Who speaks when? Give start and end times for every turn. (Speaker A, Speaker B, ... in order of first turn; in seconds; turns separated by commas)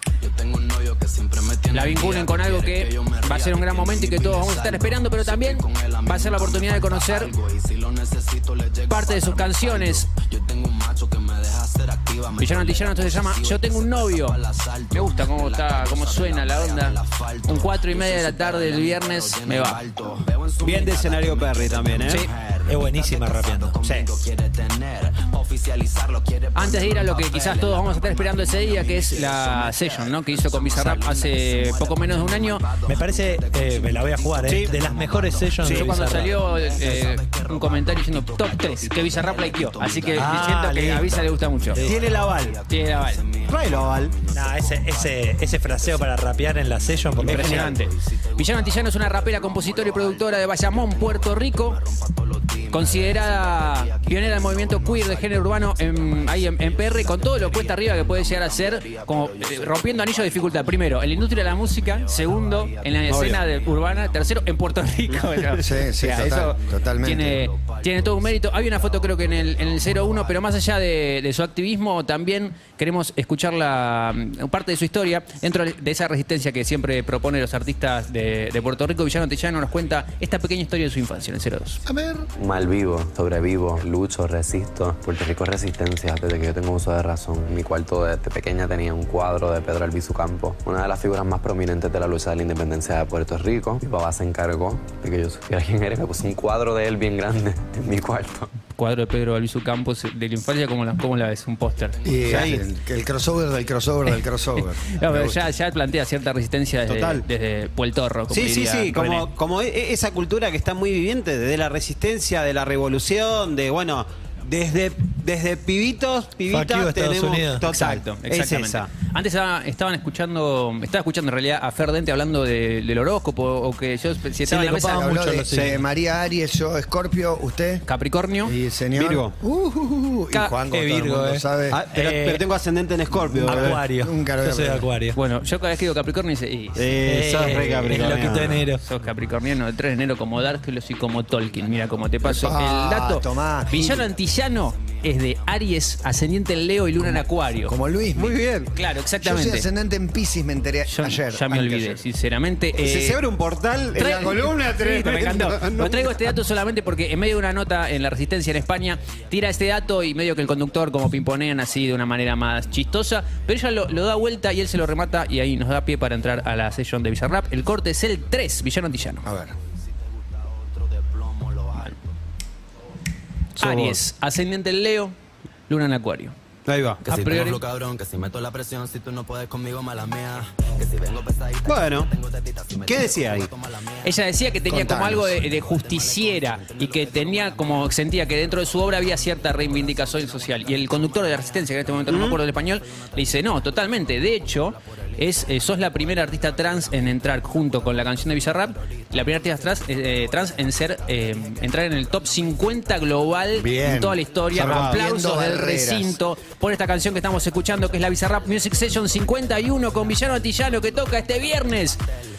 Speaker A: 0.2-70.7, Speaker B: 1.7-7.3, Speaker B: 8.9-10.1, Speaker B: 12.4-14.4, Speaker B: 14.9-19.8, Speaker C: 20.6-22.2, Speaker D: 22.7-24.1, Speaker B: 26.6-32.6, Speaker D: 32.9-36.3, Speaker C: 34.4-34.7, Speaker C: 35.6-35.9, Speaker B: 35.6-41.8, Speaker D: 40.1-41.1, Speaker C: 41.8-42.6, Speaker B: 42.7-43.2, Speaker C: 43.5-44.1, Speaker D: 44.3-47.8, Speaker B: 47.2-51.8, Speaker B: 52.7-81.8, Speaker C: 63.1-63.4, Speaker E: 65.6-67.4, Speaker E: 81.9-82.3, Speaker F: 82.4-98.5, Speaker B: 98.7-102.5, Speaker A: 102.0-102.5, Speaker E: 102.0-105.4, Speaker C: 102.3-102.6, Speaker B: 104.9-109.3, Speaker C: 106.9-107.2, Speaker C: 108.3-118.9, Speaker D: 116.5-117.7, Speaker B: 117.7-125.3, Speaker E: 124.5-127.9, Speaker D: 124.8-125.8, Speaker C: 125.5-125.8, Speaker B: 127.9-128.5, Speaker E: 128.4-131.8, Speaker C: 129.0-129.3, Speaker D: 130.7-132.4, Speaker C: 131.7-133.8, Speaker E: 133.3-134.9, Speaker D: 133.4-135.2, Speaker B: 135.2-136.9, Speaker C: 136.8-138.7, Speaker D: 137.0-138.8, Speaker B: 138.8-147.7, Speaker A: 140.9-142.6, Speaker E: 142.3-144.1, Speaker A: 143.7-146.0, Speaker E: 147.7-148.4, Speaker C: 148.2-148.7, Speaker B: 148.7-149.7, Speaker E: 149.2-152.0, Speaker B: 150.9-153.2, Speaker C: 152.8-156.2, Speaker B: 154.0-169.3, Speaker E: 169.2-169.5, Speaker A: 170.7-172.0, Speaker B: 173.6-175.2, Speaker C: 173.6-174.0, Speaker B: 175.7-176.3, Speaker C: 176.7-177.0, Speaker A: 177.0-203.1, Speaker B: 177.1-177.6, Speaker C: 181.7-182.1, Speaker C: 182.9-183.5, Speaker B: 184.0-212.0, Speaker E: 184.7-185.4, Speaker C: 192.1-192.4, Speaker E: 203.6-206.2, Speaker C: 204.6-205.0, Speaker A: 207.8-211.8